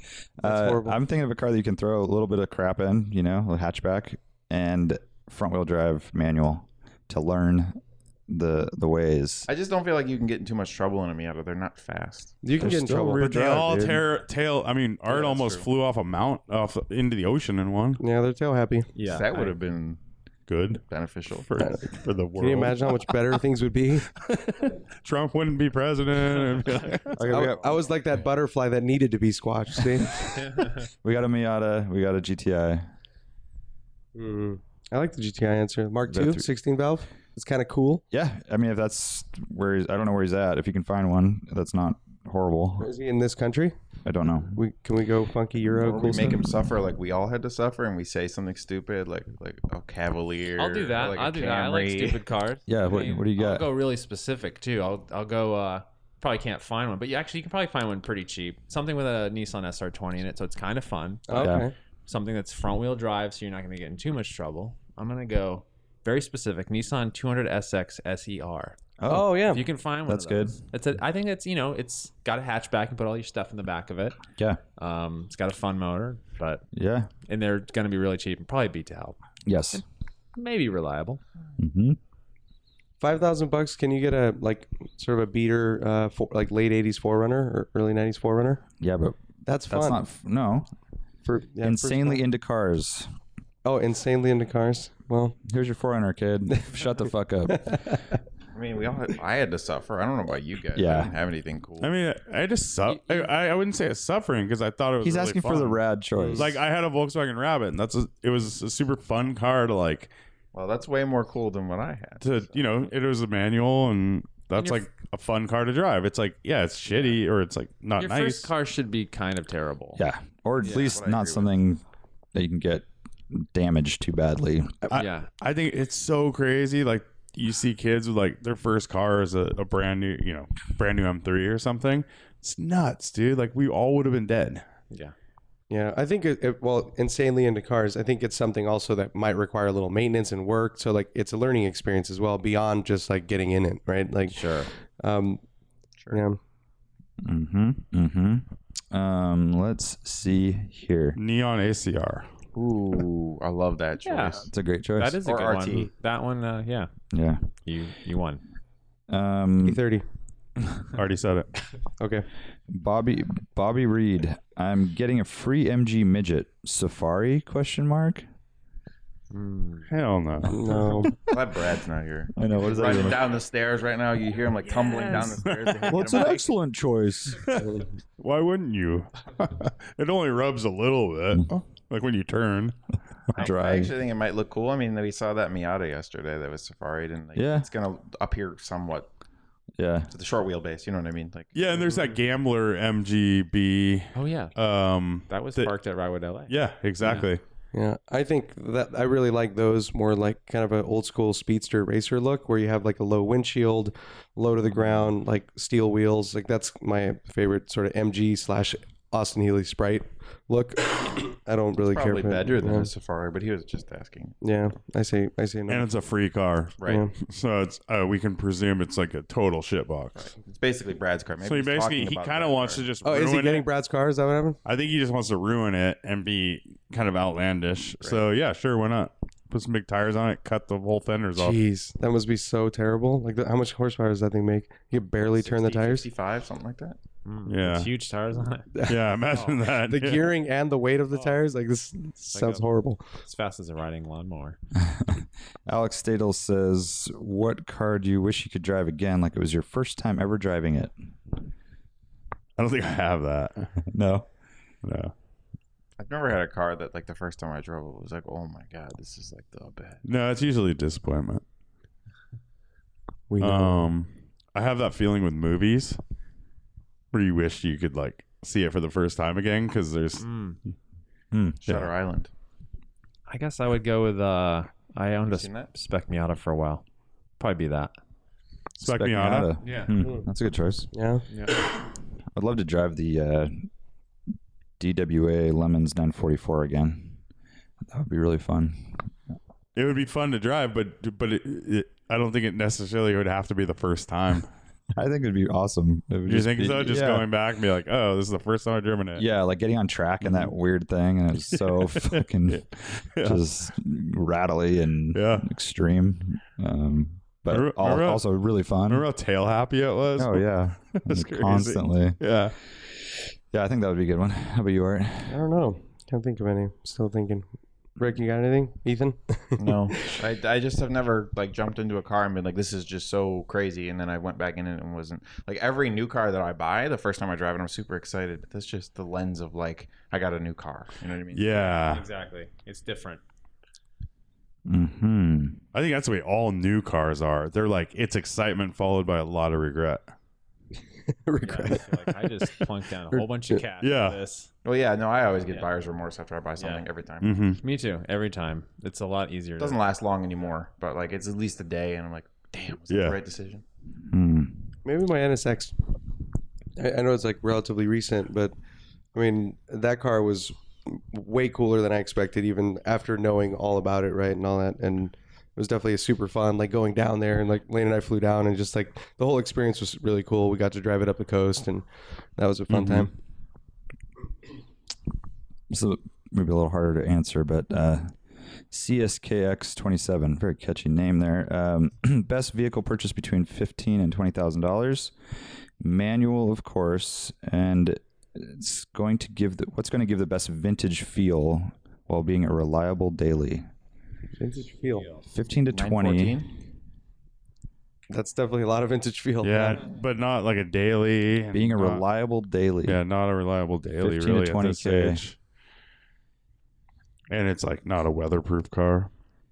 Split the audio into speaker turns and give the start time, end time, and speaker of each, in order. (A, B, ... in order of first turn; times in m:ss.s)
0:00.4-0:09.5 A
0:00.4-0:01.0 B
0:09.5-0:12.4 C
0:12.4-0:14.0 B
0:12.6-0:14.0 A
0:13.2-0:18.0 D
0:15.1-0:15.7 C
0:18.0-0:18.9 B
0:19.0-0:19.5 E
0:19.0-0:20.0 C
0:20.5-0:23.4 D
0:20.9-0:21.5 C
0:21.6-0:24.1 B
0:24.2-0:27.2 D
0:27.2-0:27.9 A
0:27.3-0:30.3 B
0:30.4-0:30.9 E
0:31.0-0:32.9 A
0:34.2-0:38.0 B
0:38.1-0:42.9 A
0:42.8-0:43.8 B
0:44.0-0:44.6 A
0:44.5-0:46.6 B
0:45.7-0:52.2 C
0:50.6-1:08.8 E
0:52.7-0:53.7 A
1:01.3-1:01.7 B
1:01.4-1:01.7 A
1:09.0-1:10.6 A
1:09.1-1:09.6 B
1:09.5-1:14.2 E
1:14.8-1:16.6 E
1:16.7-1:17.1 A
1:17.3-1:19.2 E
1:19.4-1:19.8 A
1:20.4-1:21.2 E
1:21.6-1:22.0 A
1:23.0-1:28.6 B
1:28.8-1:29.2 A
1:29.5-1:30.0 B
1:29.7-1:30.7 A
1:31.2-1:32.2 B
1:31.6-1:33.1 A
1:33.6-1:35.4 B
1:35.4-1:37.9 A
1:37.5-1:38.0 B
1:38.5-1:41.9 C
1:40.8-1:41.1 A
1:41.8-1:45.8 D
1:42.9-1:43.3 E
1:45.0-1:46.6 A
1:46.2-1:46.5 B
1:46.4-1:50.1 D
1:50.5-1:52.9 C
1:52.2-1:58.5 D
1:54.6-1:54.9 E
1:58.0-2:00.0 E
2:00.0-2:01.8 A
2:00.6-2:01.0 E
2:00.6-2:01.6 C
2:02.3-2:04.8 A
2:04.9-2:14.6 D
2:04.9-2:05.3 E
2:15.7-2:25.4 B
2:24.3-2:24.7 E
2:26.1-2:26.4 B
2:27.2-2:31.2 A
2:31.2-2:32.3 D
2:32.6-2:34.5 C
2:34.0-2:36.9 E
2:34.4-2:35.2 A
2:35.2-2:35.9 C
2:37.1-2:37.4 A
2:37.6-2:38.4 E
2:39.1-2:39.8 A
2:39.6-2:40.0 B
2:40.9-2:41.6 D
2:42.0-2:42.3 B
2:42.7-2:48.3 A
2:49.3-2:49.9 E
2:49.9-2:51.1 D
2:50.5-2:51.2 B
2:51.2-2:56.5 C
2:52.4-2:53.3 A
2:55.9-2:57.5 A
2:57.4-3:02.8 D
2:57.6-2:57.9 B
3:03.4-3:09.1 C
3:03.4-3:03.9 A
3:07.4-3:07.7 A
3:09.8-3:10.1 A
3:10.1-3:11.5 C
3:11.6-3:15.7 D
3:14.2-3:14.5 E
3:15.3-3:17.3 E
3:16.5-3:17.4 D
3:17.7-3:32.9 B
3:31.9-3:34.4 C
3:34.4-3:35.9 B
3:35.7-3:40.3 D
3:36.8-3:37.1 C
3:36.8-3:37.1 B
3:40.2-3:42.9 C
3:41.4-3:43.7 D
3:43.0-3:44.6 B
3:44.6-3:51.6 D
3:48.0-3:48.3 C
3:51.4-3:56.1 B
3:55.2-3:57.0 C
3:57.2-3:58.7 E
3:57.5-3:57.9 D
3:58.7-3:59.1 B
3:58.8-4:00.3 D
3:59.3-3:59.6 E
3:59.9-4:03.0 B
4:02.3-4:02.7 E
4:03.2-4:04.6 E
4:04.8-4:10.9 A
4:12.6-4:13.8 D
4:13.9-4:14.3 A
4:14.8-4:15.1 D
4:16.0-4:20.0 C
4:20.0-4:21.4 D
4:23.3-4:23.9 B
4:23.4-4:26.0 D
4:27.1-4:30.2 D
4:30.2-4:30.6 E
4:31.3-4:31.6 A
4:31.6-4:32.3 C
4:33.3-4:36.8 E
4:35.3-4:35.7 C
4:37.4-4:37.9 E
4:38.8-4:39.6 D
4:38.8-4:40.9 A
4:39.6-4:40.0 E
4:40.0-4:40.3 B
4:40.9-4:41.2 B
4:41.3-4:41.6 E
4:42.3-4:43.7 A
4:44.8-4:47.2 A
4:47.9-4:49.1 A
4:49.8-4:54.5 D
4:54.9-4:57.3 A
4:56.3-4:59.2 D
4:59.2-5:02.7 A
5:00.2-5:00.5 D
5:01.5-5:03.4 D
5:03.2-5:09.1 A
5:05.1-5:05.5 D
5:07.5-5:08.2 D
5:08.8-5:12.6 D
5:10.2-5:12.2 A
5:13.5-5:15.4 A
5:15.3-5:17.5 B
5:18.0-5:20.2 B
5:19.6-5:31.7 C
5:31.3-5:32.0 D
5:31.8-5:33.2 E
5:34.7-5:35.6 A
5:35.7-5:40.0 D
5:41.1-5:42.0 B
5:41.4-5:44.5 E
5:43.1-5:43.6 B
5:43.8-5:44.2 D
5:44.6-5:47.4 C
5:46.6-5:46.9 E
5:47.2-5:47.6 D
5:47.6-5:49.8 E
5:49.6-5:53.6 C
5:52.9-5:53.2 D
5:54.1-5:54.6 A
5:54.8-5:55.8 B
5:56.8-5:58.5 B
5:59.1-6:11.9 B
6:12.4-6:13.1 B
6:12.7-6:13.1 D
6:15.7-6:18.2 A
6:18.7-6:25.1 A
6:25.8-6:33.7 A
6:34.4-6:35.1 B
6:34.9-6:35.3 E
6:35.3-6:36.4 A
6:35.7-6:36.5 C
6:38.1-6:39.8 B
6:39.4-6:42.0 D
6:41.5-6:43.0 A
6:42.8-6:45.4 D
6:43.9-6:45.2 A
6:47.3-6:49.1 D